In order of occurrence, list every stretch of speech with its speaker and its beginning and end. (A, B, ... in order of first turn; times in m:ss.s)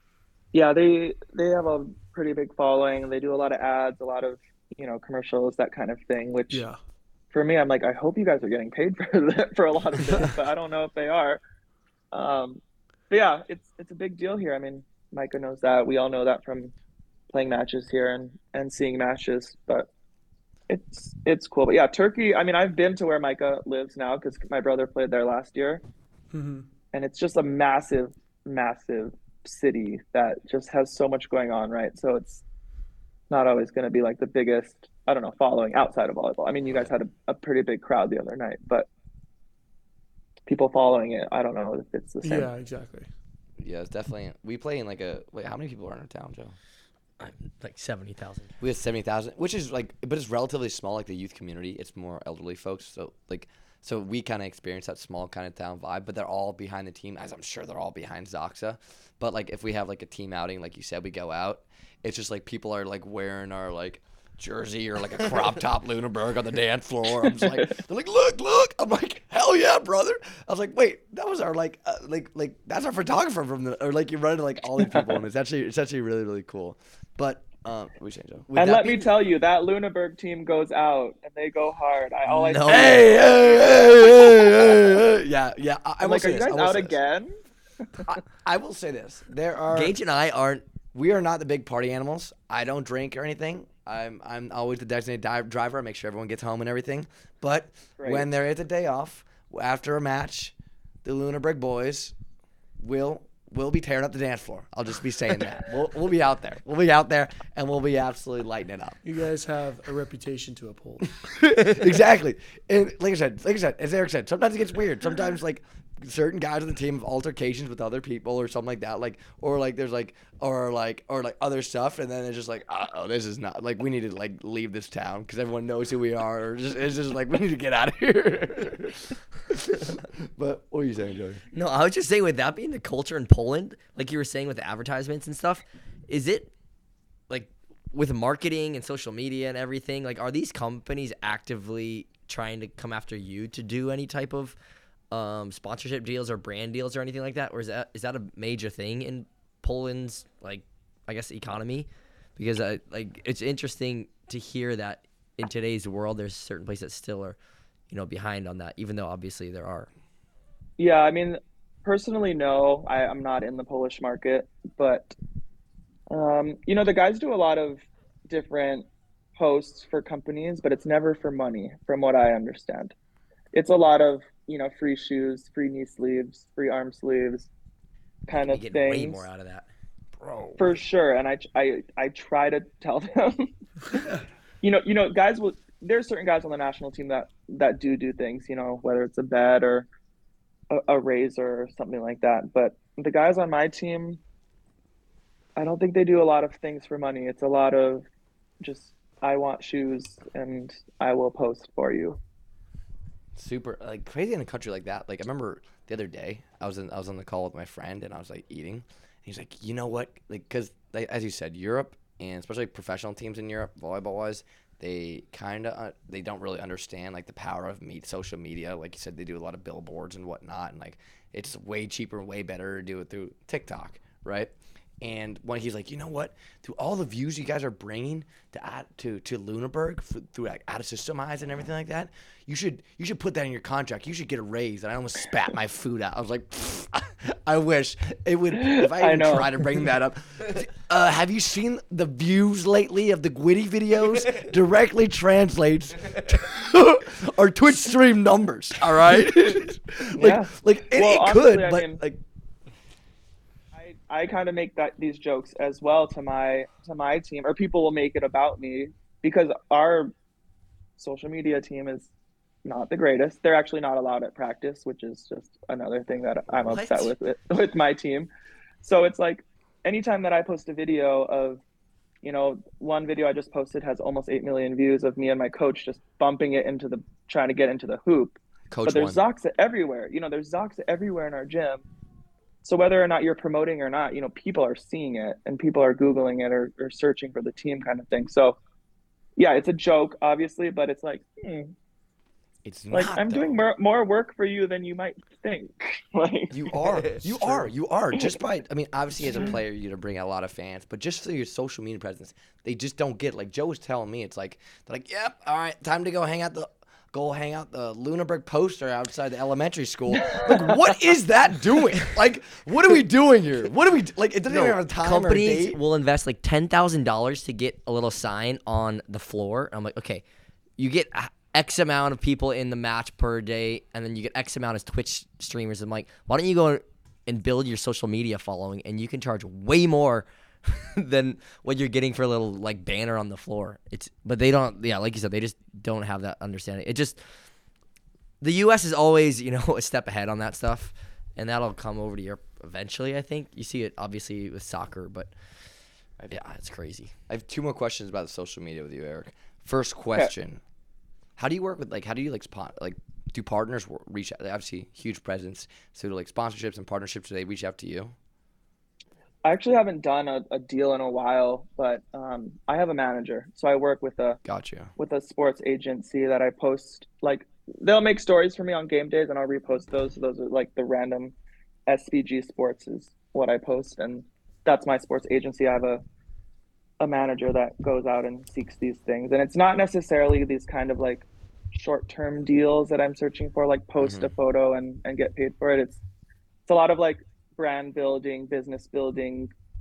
0:00.5-0:06.6 A
0:06.5-0:06.8 B
0:07.3-0:11.4 A
0:12.1-0:16.7 A
0:17.3-0:19.9 A
0:20.7-0:25.8 A
0:26.3-0:26.7 B
0:26.9-0:32.4 A
0:33.3-0:38.9 A
0:40.5-0:42.5 A
0:42.2-0:43.1 B
0:43.6-0:46.5 C
0:47.2-0:48.5 D
0:48.6-1:18.5 C
1:18.5-1:19.1 D
1:18.5-1:23.1 A
1:22.2-1:23.0 D
1:22.7-1:27.0 C
1:26.0-1:27.3 A
1:28.1-1:29.9 C
1:29.7-1:30.6 D
1:30.9-1:42.1 C
1:38.0-1:38.3 A
1:42.8-1:49.0 C
1:49.0-1:51.1 B
1:51.6-2:11.4 C
2:11.5-2:16.5 D
2:17.3-2:24.6 D
2:25.1-2:37.4 D
2:37.9-2:39.9 D
2:40.8-2:45.2 A
2:46.1-2:52.9 A
2:53.5-2:57.5 A
2:58.3-2:59.2 A
2:58.3-2:59.7 D
3:00.2-3:00.8 C
3:00.6-3:03.5 A
3:04.6-3:09.8 A
3:10.7-3:14.2 A
3:15.6-3:18.0 A
3:18.6-3:22.2 A
3:23.4-4:12.2 C
3:58.5-3:59.7 A
4:10.2-4:12.0 A
4:13.7-4:20.1 A
4:21.0-4:22.1 A
4:22.6-4:28.3 A
4:26.6-4:27.1 D
4:28.8-4:31.6 A
4:32.2-4:41.8 A
4:38.7-4:39.2 C
4:42.6-4:48.6 A
4:49.4-4:51.7 A
4:52.6-4:53.6 C
4:52.9-4:56.6 A
4:56.5-5:15.8 C
4:57.1-4:57.6 D
5:14.5-5:20.2 D
5:20.8-5:37.4 D
5:38.4-5:45.3 D
5:46.2-5:47.2 D
5:47.3-5:50.6 C
5:51.4-5:58.1 C
5:59.4-6:04.4 A
6:04.4-6:04.9 C
6:05.0-6:11.3 A
6:11.9-6:16.0 A
6:17.0-6:26.0 A
6:24.0-6:24.3 C
6:26.6-6:29.5 A